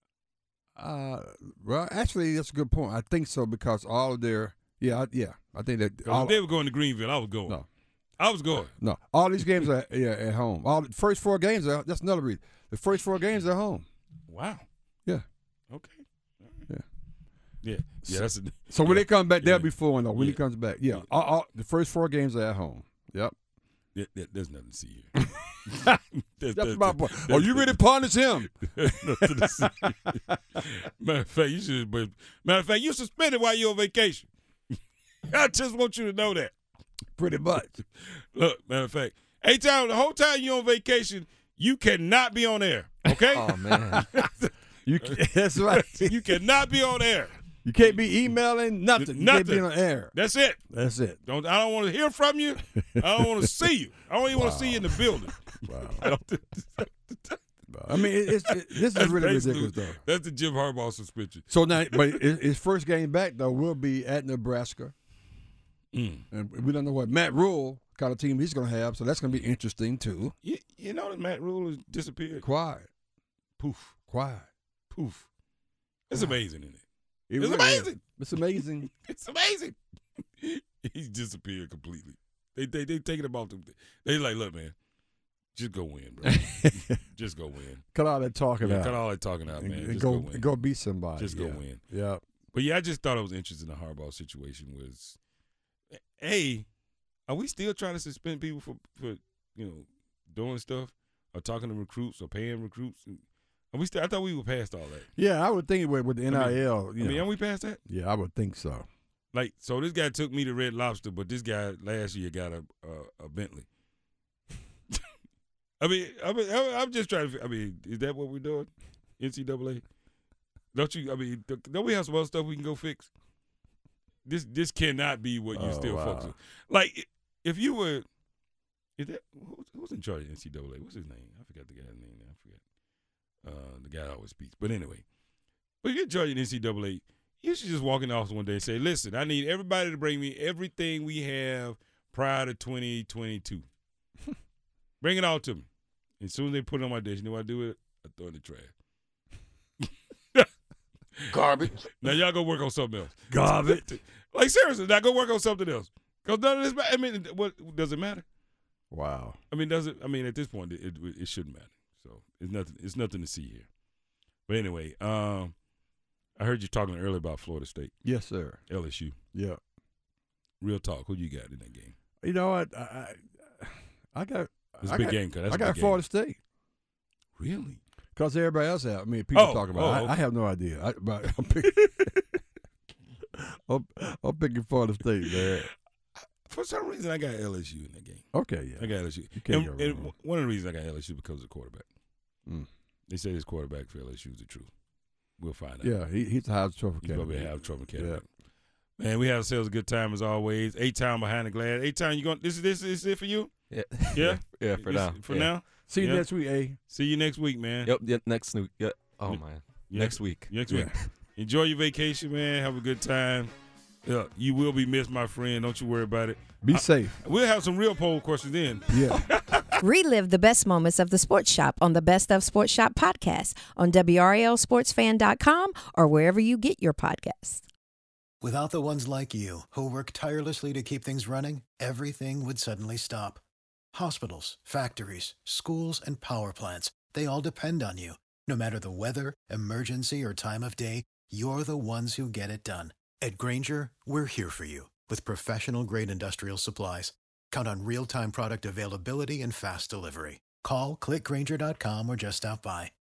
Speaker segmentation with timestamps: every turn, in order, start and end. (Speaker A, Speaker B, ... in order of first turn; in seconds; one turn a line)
Speaker A: 0.8-6.4
Speaker B: 6.0-7.6
Speaker B: 8.2-8.7
Speaker A: 8.8-13.8
Speaker B: 14.3-14.7
Speaker B: 15.7-16.6
Speaker B: 17.6-21.1
Speaker A: 18.1-23.4
Speaker B: 23.9-27.8
Speaker A: 26.5-30.2
Speaker B: 28.6-34.3
Speaker B: 35.3-36.5
Speaker A: 37.2-37.8
Speaker B: 38.3-44.5
Speaker C: 43.3-44.0
Speaker A: 44.9-46.3
Speaker B: 45.7-47.3
Speaker A: 47.6-50.1
Speaker B: 49.0-50.6
Speaker A: 50.7-51.2
Speaker B: 51.3-57.4
Speaker A: 53.0-53.5
Speaker A: 54.3-56.1
Speaker A: 57.7-60.0
Speaker B: 57.9-62.2
Speaker A: 61.5-64.9
Speaker B: 65.9-66.2
Speaker A: 66.3-70.3
Speaker B: 70.4-72.5
Speaker A: 72.4-72.9
Speaker B: 73.6-73.9
Speaker A: 74.1-74.5
Speaker B: 74.9-75.3
Speaker B: 76.1-76.8
Speaker A: 77.3-78.9
Speaker B: 77.4-79.8
Speaker B: 80.4-84.8
Speaker B: 85.5-87.8
Speaker A: 86.2-86.9
Speaker A: 87.9-89.0
Speaker B: 88.6-90.5
Speaker A: 89.5-92.2
Speaker B: 91.2-91.8
Speaker B: 92.5-95.2
Speaker B: 96.2-96.7
Speaker B: 97.3-105.1
Speaker A: 105.2-107.2
Speaker B: 106.3-107.8
Speaker A: 107.9-108.9
Speaker B: 109.3-113.7
Speaker B: 115.8-119.8
Speaker B: 120.7-123.1
Speaker B: 124.3-128.0
Speaker A: 125.5-126.3
Speaker B: 129.0-132.6
Speaker B: 133.4-135.1
Speaker B: 135.8-143.7
Speaker B: 145.0-145.7
Speaker B: 146.2-148.7
Speaker B: 149.8-150.5
Speaker A: 151.3-151.9
Speaker B: 151.6-158.2
Speaker A: 153.3-153.9
Speaker A: 158.9-159.4
Speaker B: 159.5-163.7
Speaker B: 164.5-165.5
Speaker B: 166.4-167.9
Speaker A: 168.0-168.6
Speaker B: 168.7-169.2
Speaker A: 169.3-169.6
Speaker B: 170.6-171.9
Speaker A: 172.2-176.4
Speaker B: 174.8-176.0
Speaker B: 177.4-177.8
Speaker A: 178.2-182.4
Speaker B: 179.3-180.2
Speaker A: 183.4-185.7
Speaker B: 186.5-188.2
Speaker A: 188.3-190.1
Speaker B: 188.8-191.8
Speaker B: 193.1-194.7
Speaker B: 195.4-195.9
Speaker A: 195.8-198.2
Speaker B: 197.0-198.2
Speaker B: 199.0-203.5
Speaker C: 203.7-205.5
Speaker B: 204.1-206.3
Speaker A: 205.9-206.8
Speaker B: 206.9-207.9
Speaker C: 207.9-210.5
Speaker B: 209.3-213.5
Speaker A: 210.7-211.0
Speaker B: 214.1-219.7
Speaker A: 216.6-217.2
Speaker A: 218.9-219.3
Speaker D: 219.8-227.6
Speaker E: 228.4-233.4
Speaker E: 233.9-252.9